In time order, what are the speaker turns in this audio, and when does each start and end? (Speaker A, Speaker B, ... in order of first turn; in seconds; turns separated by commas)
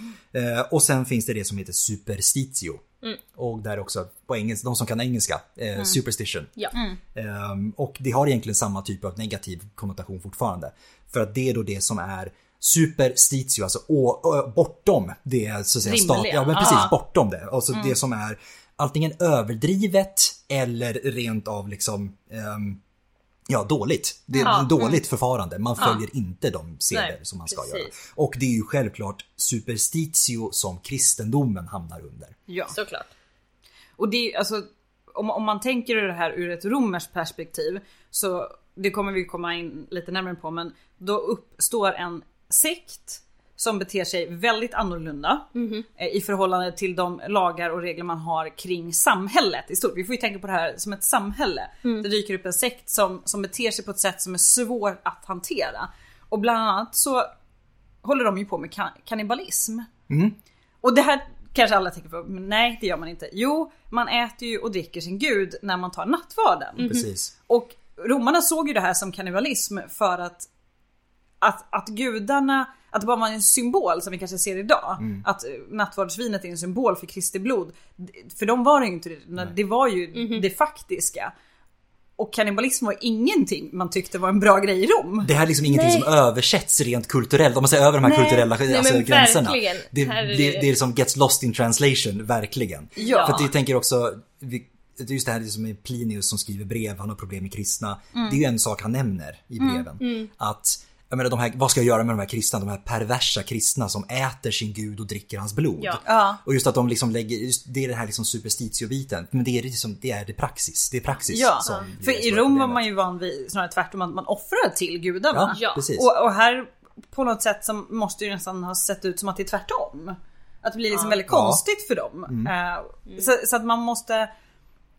Speaker A: 0.3-6.6, Speaker B: 6.7-7.0, Speaker A: 7.1-22.8, Speaker B: 15.8-16.9, Speaker C: 16.6-16.9, Speaker A: 23.5-32.4, Speaker B: 24.3-24.9, Speaker C: 24.4-24.9, Speaker C: 26.9-27.9, Speaker B: 32.5-32.8, Speaker C: 32.7-33.1, Speaker B: 34.0-57.3, Speaker C: 45.5-45.9, Speaker B: 58.0-59.9, Speaker A: 60.1-60.4, Speaker B: 60.8-70.5, Speaker A: 66.8-67.3, Speaker B: 71.4-81.3, Speaker A: 75.0-75.2, Speaker C: 80.1-80.5, Speaker B: 82.2-85.3, Speaker A: 85.2-112.8, Speaker C: 85.7-86.1, Speaker B: 88.0-88.5, Speaker C: 88.7-90.7, Speaker B: 93.0-93.5, Speaker C: 93.0-93.5, Speaker B: 98.1-98.4, Speaker B: 99.6-99.8, Speaker C: 100.0-100.3, Speaker B: 106.1-106.4, Speaker B: 111.3-124.3, Speaker A: 115.3-116.1, Speaker C: 115.5-115.9, Speaker A: 121.3-121.6